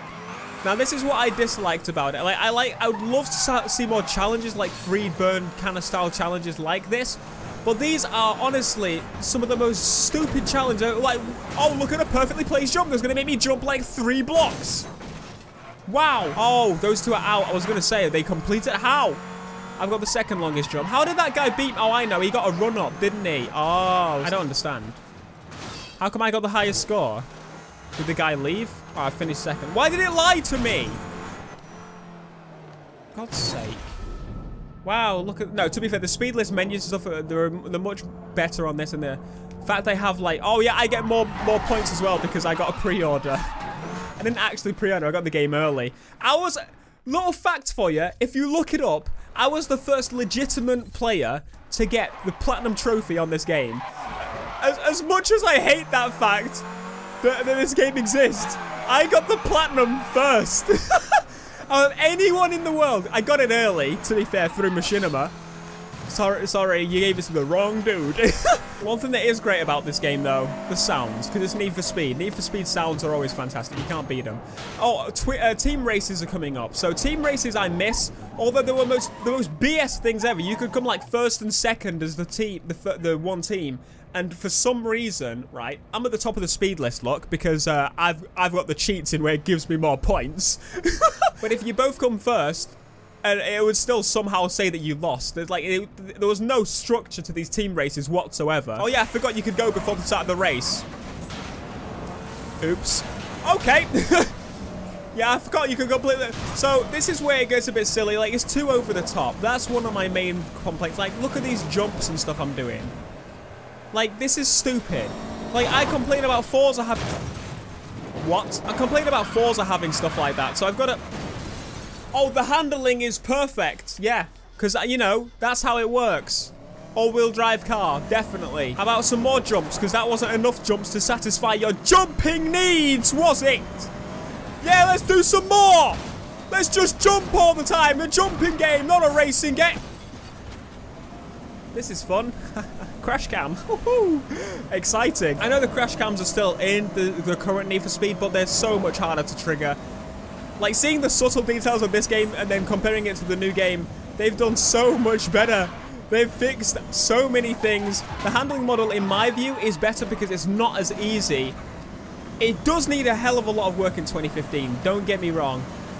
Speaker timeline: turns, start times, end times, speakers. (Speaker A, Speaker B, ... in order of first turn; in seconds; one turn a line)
Speaker A: 0.6-14.9
Speaker A: 15.9-19.2
Speaker A: 19.8-25.0
Speaker A: 26.0-27.3
Speaker A: 27.9-31.0
Speaker A: 33.1-34.0
Speaker A: 34.8-43.5
Speaker A: 44.2-53.9
Speaker A: 54.6-56.7
Speaker A: 57.2-65.3
Speaker A: 66.1-100.9
Speaker A: 102.6-104.3
Speaker A: 105.1-113.0
Speaker A: 113.9-117.1
Speaker A: 118.2-121.0
Speaker A: 122.1-133.9
Speaker A: 134.6-139.8
Speaker A: 141.7-149.8
Speaker A: 150.6-161.6
Speaker A: 162.4-165.7